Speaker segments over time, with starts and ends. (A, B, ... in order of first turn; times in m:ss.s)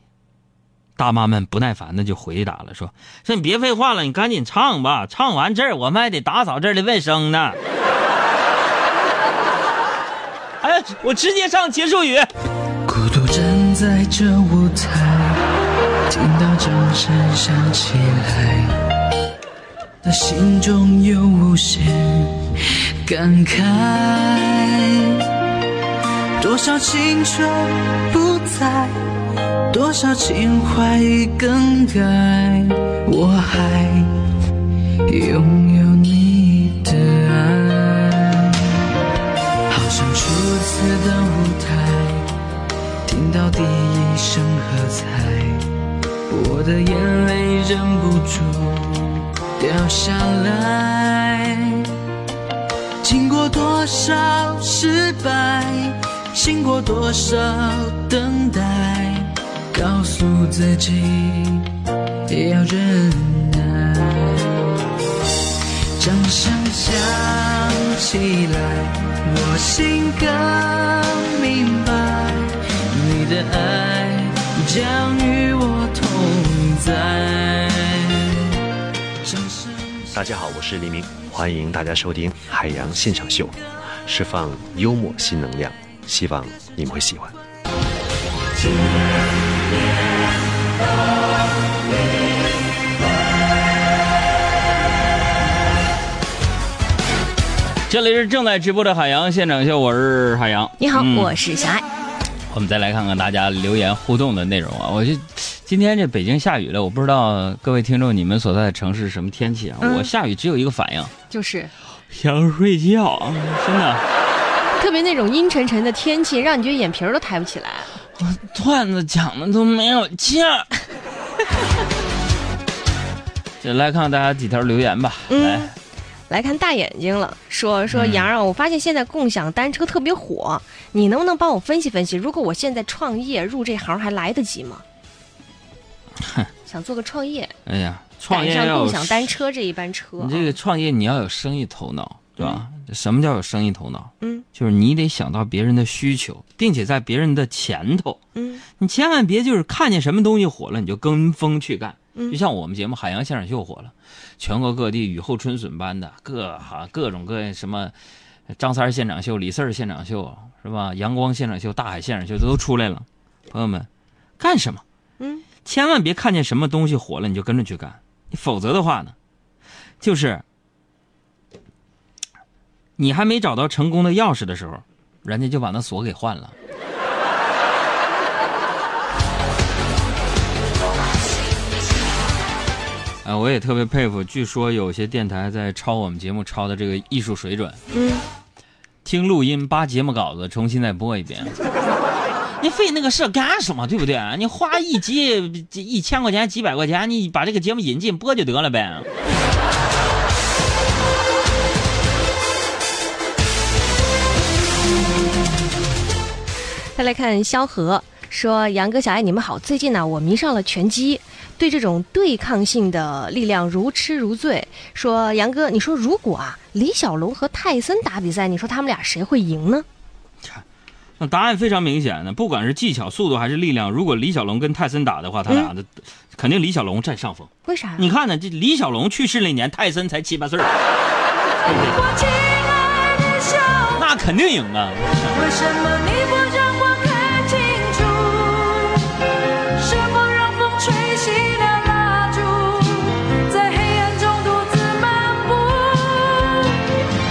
0:01.0-0:07.6 A
0:10.6-0:12.3 A
0:12.9-0:15.4 B
0:16.1-0:18.7 B
0:20.0-0:22.5 B
0:23.0-0:25.2 B
0:26.4-0:29.0 B
0:29.7-0:34.1 B
0:35.1-0:38.7 B
0:39.7-0:42.3 B
0:43.1-0:45.7 B
0:46.3-0:51.9 B
0:53.0-1:01.7 B
1:02.3-1:04.8 B
1:06.0-1:18.4 B
1:19.2-1:19.9 B
1:20.1-1:27.3 C
1:37.9-1:41.3 A
1:40.8-1:41.9 D
1:42.5-1:51.1 A
1:49.8-1:50.1 D
1:51.3-1:51.7 D
1:52.1-1:54.0 A
1:54.8-1:57.9 D
1:58.2-2:00.7 A
2:03.6-2:05.7 A
2:05.3-2:05.7 D
2:06.3-2:14.8 D
2:07.9-2:08.3 A
2:16.2-2:16.5 A
2:16.7-2:17.5 D
2:17.7-2:19.3 A
2:18.3-2:20.5 D
2:20.2-2:28.2 A
2:28.4-2:28.6 D
2:28.8-2:37.9 A
2:38.6-2:43.9 A
2:44.4-2:44.8 A
2:45.2-2:45.4 D
2:45.6-2:49.2 A
2:50.0-2:50.4 A
2:53.0-2:56.6 A
3:03.2-3:07.8 A
3:07.9-3:08.2 D
3:09.0-3:11.6 A
3:12.6-3:19.1 A
3:27.0-3:39.9 D
3:41.2-3:50.7 A
3:47.7-3:48.0 D
3:51.7-3:52.0 A
3:51.7-3:54.0 E
3:54.0-3:55.4 A
3:55.2-3:59.0 E
3:59.8-4:06.8 E